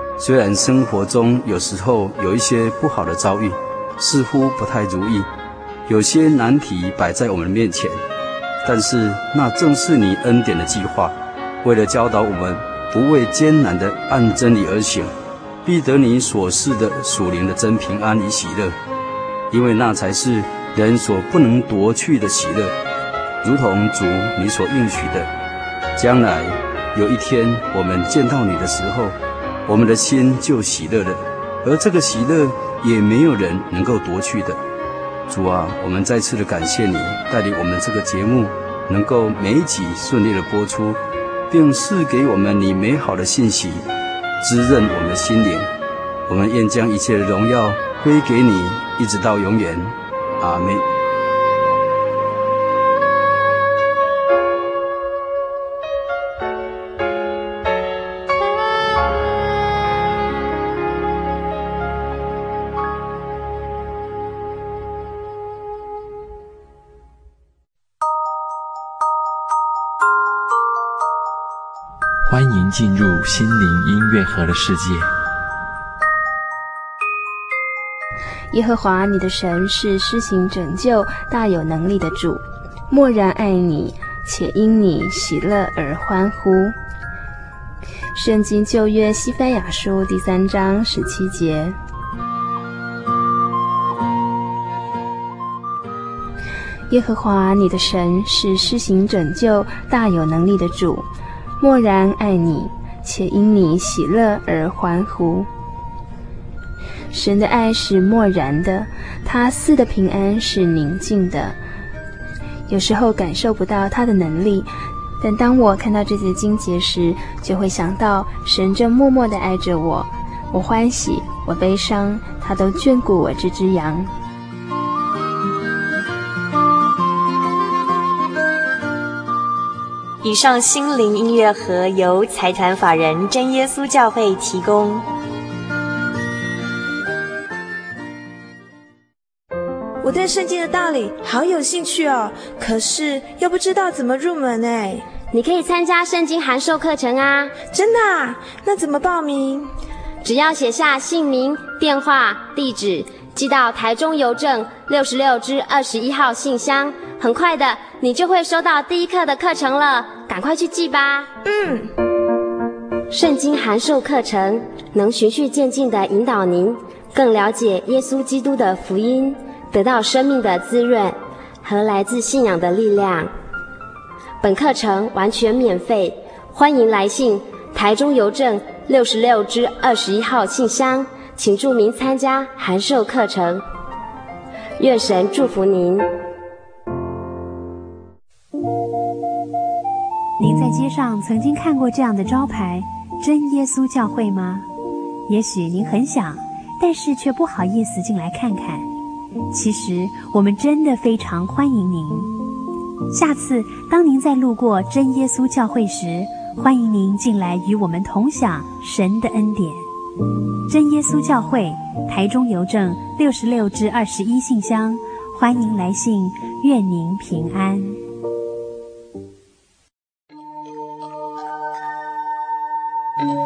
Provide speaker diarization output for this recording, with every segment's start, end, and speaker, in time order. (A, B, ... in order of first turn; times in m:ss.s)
0:00.2-0:05.3 A
0:05.9-0:08.0 A
0:08.6-0:15.1 A
0:15.6-0:18.7 A
0:19.5-0:22.8 A
0:23.4-0:25.3 A
0:26.0-0:29.2 A
0:29.7-0:34.6 A
0:35.3-0:41.0 A
0:41.5-0:43.9 A
0:44.4-0:45.7 A
0:46.3-0:50.9 A
1:12.3-1:15.1 B
1:18.5-1:26.7 C
1:28.1-1:31.8 C
1:36.9-1:41.1 C
1:41.6-1:45.5 C
1:47.1-1:51.6 C
1:52.7-1:54.7 C
1:55.2-2:04.1 C
2:10.2-2:15.0 D
2:20.0-2:25.0 E
2:25.3-2:27.6 F
2:27.6-2:29.7 E
2:30.2-2:41.3 F
2:41.4-2:41.9 E
2:43.1-2:53.3 F
2:54.4-3:03.6 F
3:04.8-3:06.1 F
3:10.4-3:14.7 G
3:15.3-3:18.9 G
3:19.5-3:22.3 G
3:23.1-3:29.8 G
3:30.7-3:38.0 G